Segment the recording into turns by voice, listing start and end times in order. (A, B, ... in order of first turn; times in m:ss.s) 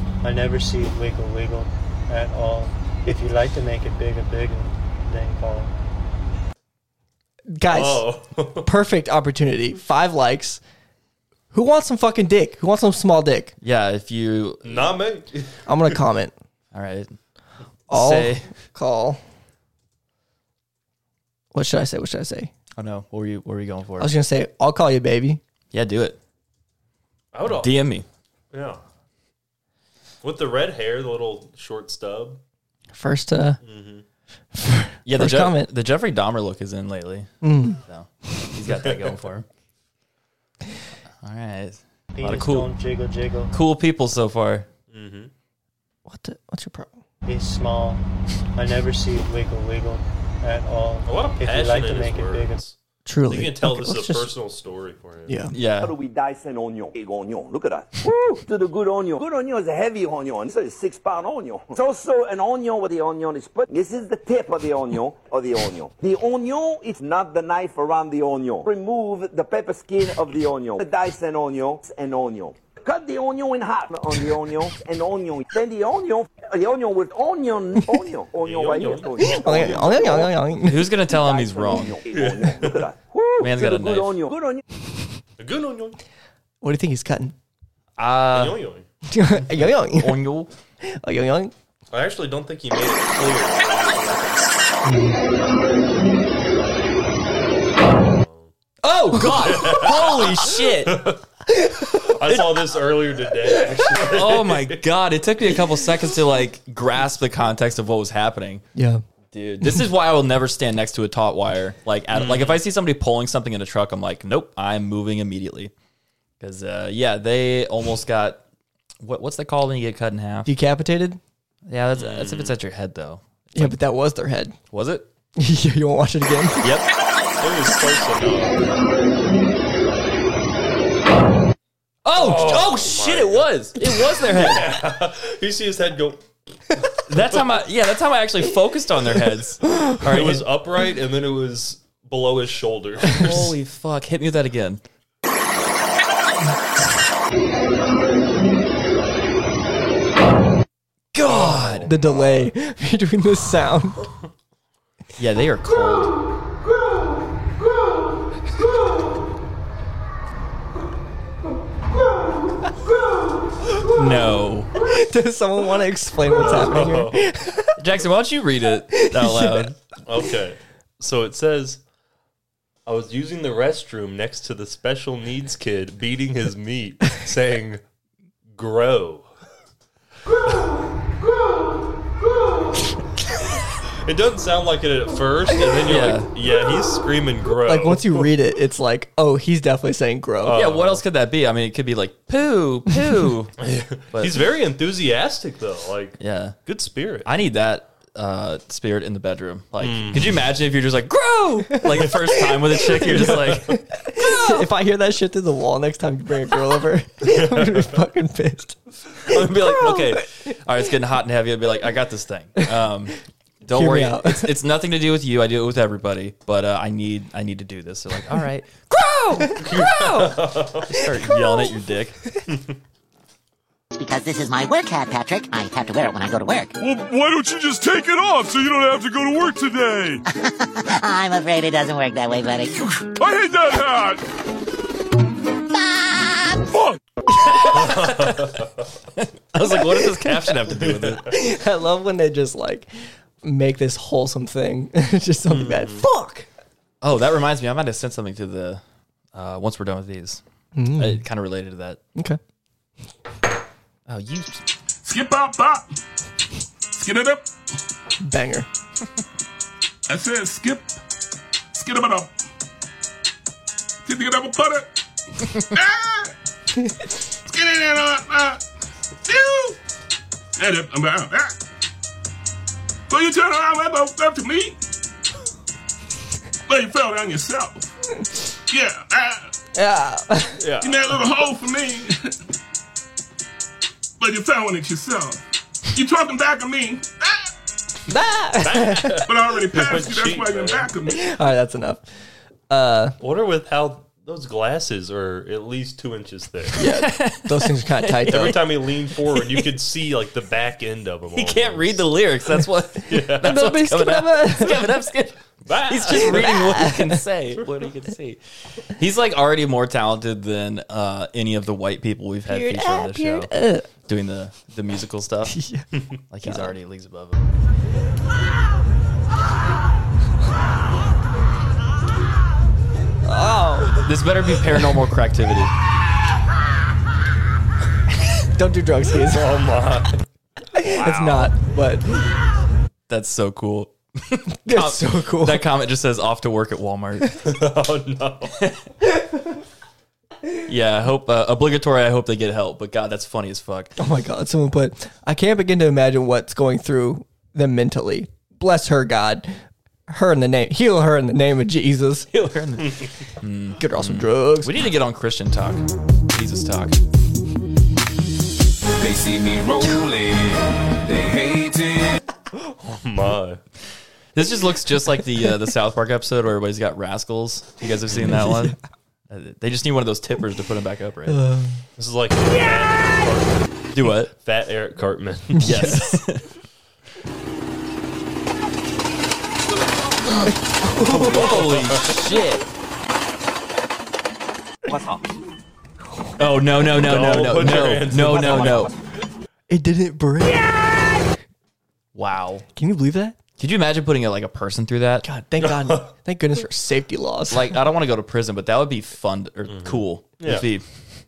0:00.2-0:05.7 A
0:07.5-0:08.1 B
0:07.7-0:08.7 C
0:08.6-0:10.6 B
0:11.5-0:13.6 B
0:13.6-0:14.9 D
0:14.6-0:16.0 C
0:15.7-0:16.3 B
0:16.7-0:17.2 D
0:17.9-0:18.5 D
0:17.9-0:19.2 B
0:21.5-0:22.5 B
0:22.8-0:24.1 D
0:24.0-0:25.4 B
0:25.7-0:26.2 D
0:27.3-0:27.8 C
0:27.5-0:28.1 D
0:28.5-0:28.8 C
0:30.2-0:32.4 C
0:32.9-0:33.6 B
0:33.6-0:34.0 C
0:34.5-0:35.7 B
0:35.1-0:37.3 D
0:37.4-0:37.8 B
0:37.8-0:39.5 D
0:38.7-0:39.1 C
0:41.2-0:42.7 D
0:42.1-0:43.5 A
0:43.5-0:44.7 D
0:44.9-0:45.3 C
0:46.1-0:46.9 B
0:47.3-0:48.0 A
0:48.6-0:52.6 A
0:51.1-0:52.8 C
0:53.1-0:54.3 B
0:53.3-0:55.4 C
0:55.3-0:55.5 B
0:55.5-0:55.9 D
0:55.8-1:20.3 E
1:18.4-1:20.3 C
1:19.2-1:21.0 B
1:20.6-1:22.0 D
1:21.1-1:24.6 E
1:22.1-1:22.8 C
1:23.4-1:24.2 D
1:25.4-1:26.0 C
1:26.6-1:27.4 B
1:28.0-1:28.6 D
1:28.3-1:28.9 C
1:29.1-1:30.1 B
1:29.7-1:30.5 D
1:30.8-1:31.5 B
1:31.9-1:34.8 C
1:34.8-1:35.2 B
1:38.1-1:38.5 C
1:38.8-1:41.0 D
1:39.2-1:41.2 C
1:41.8-1:44.8 C
1:44.0-1:48.6 D
1:48.8-1:49.0 B
1:49.3-1:55.7 D
1:52.1-1:52.6 C
1:56.4-1:58.4 D
1:59.0-2:00.5 D
2:00.5-2:01.2 B
2:01.7-2:03.8 D
2:02.0-2:02.6 C
2:03.6-2:04.6 B
2:04.7-2:05.1 D
2:05.4-2:06.6 B
2:06.6-2:06.9 D
2:07.4-2:08.7 C
2:12.0-2:14.8 D
2:12.2-2:16.2 C
2:17.1-2:20.4 D
2:17.2-2:17.5 C
2:20.0-2:23.5 C
2:23.1-2:24.8 D
2:31.2-2:34.1 B
2:31.2-2:31.9 D
2:31.4-2:32.4 C
2:35.2-2:36.1 D
2:44.0-2:44.7 D
2:44.9-2:47.7 B
2:46.4-2:47.2 C
2:47.8-2:49.7 D
2:49.0-2:49.7 B
2:50.1-2:51.8 C
2:52.9-2:57.8 C
2:58.6-2:59.3 C
3:04.1-3:08.3 C
3:05.9-3:06.3 D
3:07.7-3:10.6 B
3:10.4-3:11.0 C
3:10.5-3:13.5 D
3:13.6-3:17.3 C
3:16.2-3:16.6 D
3:17.2-3:23.8 D
3:19.8-3:20.5 C
3:22.8-3:28.8 B
3:27.3-3:28.0 C
3:29.3-3:42.2 D
3:29.3-3:29.9 B
3:29.3-3:30.1 C
3:33.7-3:34.5 B
3:39.6-3:40.9 C
3:44.0-3:46.7 F
3:46.8-3:50.2 G
3:50.8-3:52.8 F
3:53.0-3:54.2 G
3:57.7-3:58.5 D
3:57.7-3:58.7 C
3:59.2-4:01.3 D
4:00.9-4:01.2 C
4:01.3-4:02.9 B
4:03.4-4:06.5 B
4:05.5-4:06.1 C
4:07.0-4:08.8 D
4:09.3-4:10.4 D
4:10.8-4:11.2 B
4:11.0-4:12.0 D
4:14.1-4:14.6 D
4:15.0-4:15.9 G
4:17.0-4:17.5 G
4:18.2-4:18.7 B
4:20.1-4:21.0 G
4:21.8-4:22.3 G
4:24.0-4:24.9 G
4:25.7-4:26.3 G
4:27.5-4:28.6 G
4:29.2-4:29.8 G
4:30.6-4:31.5 G
4:33.1-4:34.8 G
4:36.7-4:37.9 G
4:38.7-4:39.5 G
4:39.8-4:40.6 B
4:40.6-4:41.0 C
4:40.8-4:42.3 G
4:44.2-4:45.4 G
4:45.9-4:47.5 G
4:48.1-4:49.2 B
4:48.6-4:50.9 C
4:49.3-4:51.2 G
4:51.1-4:52.1 B
4:52.7-4:53.2 B
4:53.2-4:56.8 C
4:56.8-4:58.6 B
4:56.8-4:58.5 D
4:58.3-5:02.0 C
5:01.3-5:08.4 D
5:03.1-5:03.6 C
5:03.4-5:04.9 B
5:05.7-5:06.6 C
5:06.1-5:07.2 B
5:09.0-5:13.5 D
5:12.5-5:13.9 B
5:14.0-5:15.6 D
5:15.5-5:15.9 B
5:16.3-5:17.4 D
5:16.4-5:16.7 B
5:23.2-5:24.0 B
5:24.0-5:25.7 D
5:28.6-5:29.5 B
5:29.3-5:30.2 C
5:30.8-5:32.2 B
5:30.9-5:31.5 C
5:33.1-5:37.4 D
5:34.6-5:35.7 B
5:37.4-5:38.6 C
5:40.7-5:44.0 D
5:44.0-5:49.6 B
5:50.1-5:52.3 B
5:52.3-5:57.0 D
5:53.8-5:54.8 B
5:59.0-6:02.1 E
6:02.8-6:03.6 C
6:04.4-6:08.8 D
6:08.2-6:08.8 B
6:09.3-6:11.4 D
6:11.3-6:11.8 B
6:12.0-6:15.7 C
6:13.9-6:14.3 D
6:15.6-6:16.0 B
6:15.6-6:16.4 D
6:20.4-6:21.5 B
6:21.1-6:22.6 D
6:21.1-6:22.2 C
6:26.4-6:28.9 D
6:27.0-6:28.9 C
6:29.7-6:31.2 B
6:32.2-6:32.6 D
6:32.8-6:33.4 B
6:33.6-6:35.3 D
6:35.2-6:37.7 B
6:35.6-6:36.1 C
6:37.5-6:40.8 D
6:39.7-6:40.7 C